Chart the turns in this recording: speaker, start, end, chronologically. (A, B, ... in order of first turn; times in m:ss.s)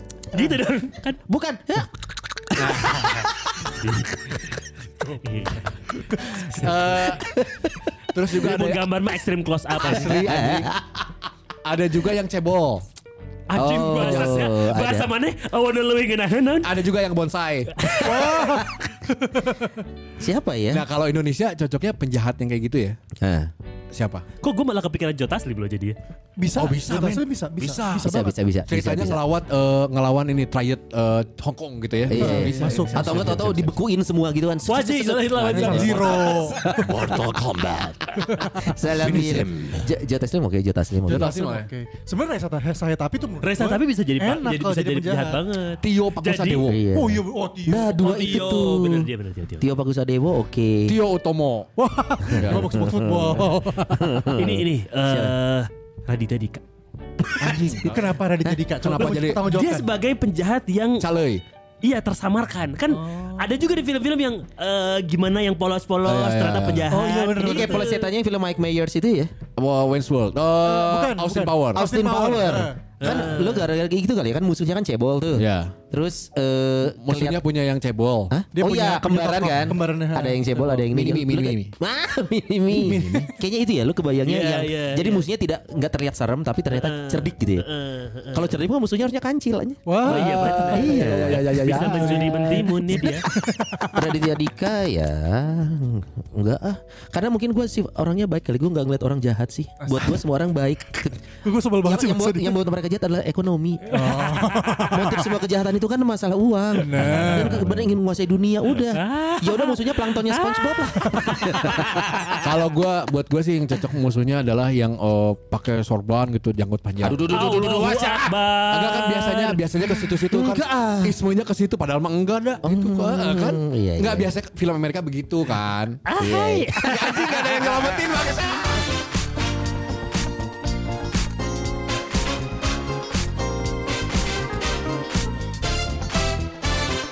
0:00.3-0:01.2 A
0:01.3-0:03.1 B
0:02.6-0:03.3 C
0:03.8-0:04.4 A
0:05.2-0:06.9 A
0:06.4-0:07.2 C
0:07.1-0:07.7 B
0:08.1-0:08.8 C
0:08.4-0:10.4 A
0:09.7-0:10.7 C
0:09.9-0:10.8 B
0:11.6-0:12.8 C
0:13.5-0:16.8 A
0:13.5-0:14.5 C
0:13.5-0:15.1 B
0:16.6-0:17.7 C
0:17.8-0:18.6 B
0:17.8-0:18.2 A
0:18.0-0:19.8 D
0:20.2-0:20.8 B
0:20.7-0:23.0 C
0:23.2-0:23.5 B
0:23.9-0:24.2 C
0:24.4-0:26.0 A
0:26.4-0:28.3 D
0:26.5-0:33.8 C
0:28.0-0:29.2 B
0:32.1-0:37.2 B
0:32.1-0:33.4 D
0:34.6-0:36.6 A
0:35.5-0:36.8 D
0:36.6-0:39.9 C
0:38.5-0:41.3 B
0:41.1-0:41.7 C
0:41.1-0:45.4 D
0:43.4-0:46.7 A
0:45.8-0:46.8 C
0:46.6-0:50.9 B
0:46.9-0:48.0 D
0:48.0-0:49.7 A
0:50.8-0:51.7 C
0:51.8-0:54.4 D
0:52.3-0:55.3 B
0:52.4-0:52.7 C
0:54.3-0:56.6 A
0:57.4-0:58.2 C
0:57.6-0:59.9 D
0:58.8-0:59.5 C
0:59.4-1:01.1 A
1:01.0-1:01.4 C
1:01.8-1:08.1 A
1:02.9-1:03.6 D
1:06.0-1:06.9 C
1:06.9-1:08.0 D
1:07.3-1:09.3 B
1:09.6-1:12.0 C
1:10.6-1:13.2 D
1:11.7-1:17.4 B
1:13.0-1:13.7 A
1:15.3-1:15.7 C
1:17.0-1:18.3 C
1:18.3-1:27.6 B
1:18.5-1:20.9 D
1:20.9-1:21.7 C
1:22.7-1:23.3 D
1:24.2-1:25.3 A
1:26.7-1:28.6 A
1:28.3-1:32.1 B
1:29.8-1:30.6 D
1:30.0-1:33.2 A
1:30.1-1:32.7 C
1:31.9-1:34.1 D
1:33.9-1:41.2 B
1:39.8-1:40.2 D
1:41.4-1:42.6 D
1:41.8-1:52.4 B
1:43.9-1:45.4 D
1:46.7-1:47.6 D
1:46.9-1:48.0 C
1:48.7-1:52.4 A
1:52.4-1:57.7 C
1:57.0-1:58.3 B
1:57.2-1:59.6 A
1:58.7-2:06.0 C
2:00.3-2:01.2 B
2:02.6-2:04.3 B
2:06.1-2:07.4 A
2:06.2-2:08.7 B
2:06.8-2:08.8 C